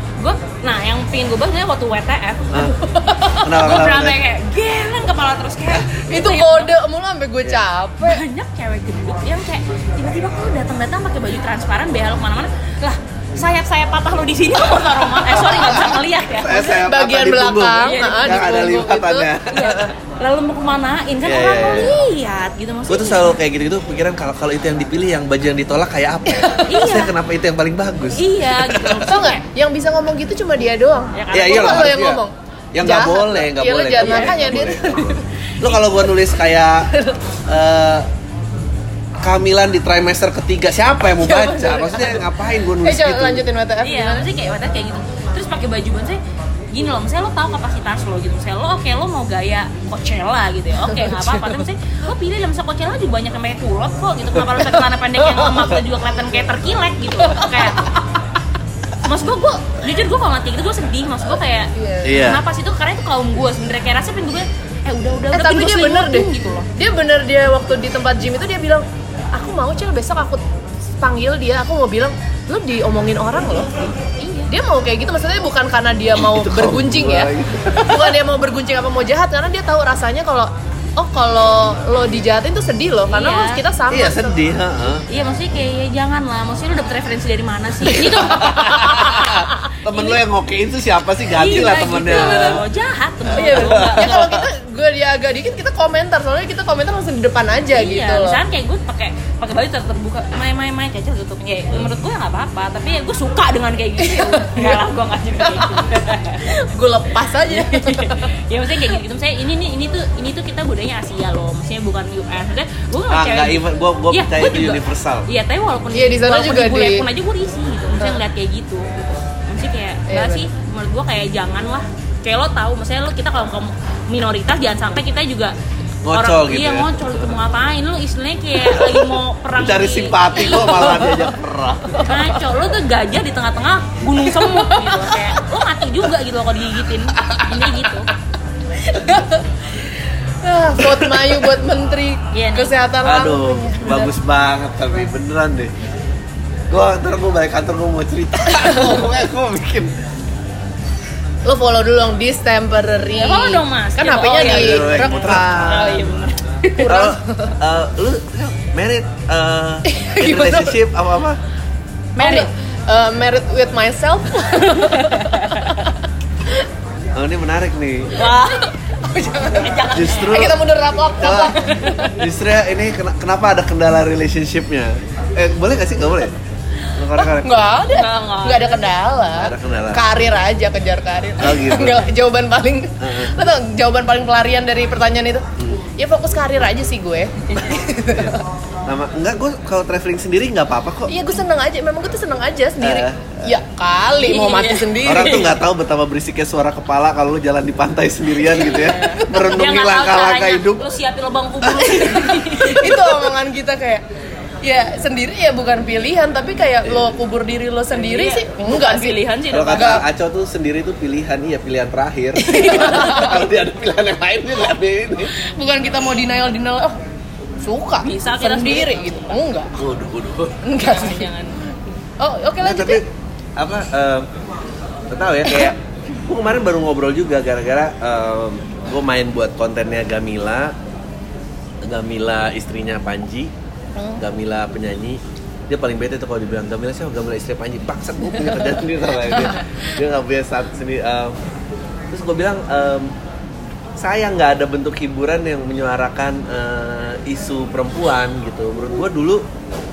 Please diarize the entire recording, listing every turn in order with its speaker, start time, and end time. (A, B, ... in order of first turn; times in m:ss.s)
0:00.2-0:06.7 A
0:02.5-0:02.8 B
0:02.9-0:03.4 C
0:03.4-0:04.2 B
0:05.9-0:08.2 C
0:08.0-0:16.8 A
0:15.3-0:19.8 B
0:16.8-0:19.3 C
0:17.8-0:18.6 A
0:19.5-0:23.4 A
0:21.2-0:22.0 B
0:22.9-0:29.1 B
0:26.3-0:26.7 C
0:26.7-0:27.1 A
0:28.1-0:29.4 A
0:29.1-0:35.2 C
0:31.1-0:32.0 A
0:31.3-0:32.2 B
0:32.7-0:36.9 B
0:34.0-0:34.4 A
0:36.9-0:37.2 C
0:37.5-0:38.1 B
0:39.2-0:43.5 B
0:41.2-0:44.3 C
0:43.8-0:46.2 A
0:46.7-0:57.9 A
0:50.9-0:51.6 C
0:57.3-0:57.9 C
0:59.0-1:06.7 A
1:01.8-1:02.3 C
1:02.0-1:02.4 B
1:05.3-1:10.4 C
1:11.0-1:13.7 C
1:14.2-1:14.5 A
1:14.5-1:24.4 C
1:16.2-1:18.2 B
1:23.1-1:23.6 A
1:23.9-1:25.0 B
1:25.1-1:30.2 A
1:27.8-1:32.6 B
1:31.3-1:34.3 A
1:32.0-1:32.6 C
1:33.3-1:34.5 B
1:33.3-1:38.4 C
1:37.7-1:46.5 A
1:44.0-1:44.8 C
1:45.4-1:48.3 C
1:47.5-2:05.6 A
1:53.1-1:55.3 B
1:55.9-1:57.1 C
2:00.1-2:00.5 C
2:06.0-2:07.3 B
2:06.1-2:11.1 A
2:08.7-2:12.1 B
2:10.5-2:11.3 C
2:12.0-2:18.1 A
2:14.3-2:15.5 C
2:18.8-2:19.5 C
2:20.4-2:24.1 C
2:22.3-2:22.7 A
2:23.0-2:25.8 B
2:26.7-2:30.0 B
2:28.5-2:28.8 C
2:31.4-2:36.1 C
2:33.1-2:36.9 A
2:34.4-2:36.0 B
2:36.7-2:37.5 C
2:36.8-2:41.4 B
2:39.9-2:40.8 C
2:42.2-2:42.5 A
2:42.2-2:45.9 C
2:44.6-2:45.9 A
2:47.1-2:48.3 B
2:48.1-2:48.7 A
2:48.4-2:52.1 C
2:49.6-2:50.5 A
2:49.9-2:51.6 B
2:51.6-2:52.1 A
2:52.1-2:56.4 B
2:57.0-2:57.7 B
2:57.2-3:05.4 C
2:57.9-2:58.8 A
2:59.4-3:00.1 B
3:01.4-3:02.1 B
3:03.0-3:03.4 B
3:06.0-3:08.4 C
3:08.1-3:11.1 B
3:11.1-3:15.6 C
3:12.8-3:13.6 B
3:14.2-3:15.5 A
3:15.0-3:20.9 B
3:18.5-3:19.6 C
3:18.6-3:23.3 A
3:21.6-3:22.1 B
3:21.9-3:24.0 C
3:24.6-3:29.2 C
3:26.8-3:27.1 B
3:27.9-3:30.0 A
3:29.5-3:35.3 B
3:29.7-3:30.0 C
3:32.4-3:33.4 C
3:35.3-3:37.0 C
3:37.6-3:39.8 C
3:38.0-3:39.3 A
3:39.8-3:40.6 B
3:40.6-3:41.3 C
3:40.8-3:41.6 A
3:42.2-3:43.0 C
3:42.6-3:44.3 B
3:45.1-3:50.8 B
3:51.8-3:53.5 B
3:54.0-3:54.2 C
3:54.2-4:01.4 B
3:58.5-3:59.9 C
4:02.1-4:03.1 B
4:04.0-4:09.5 B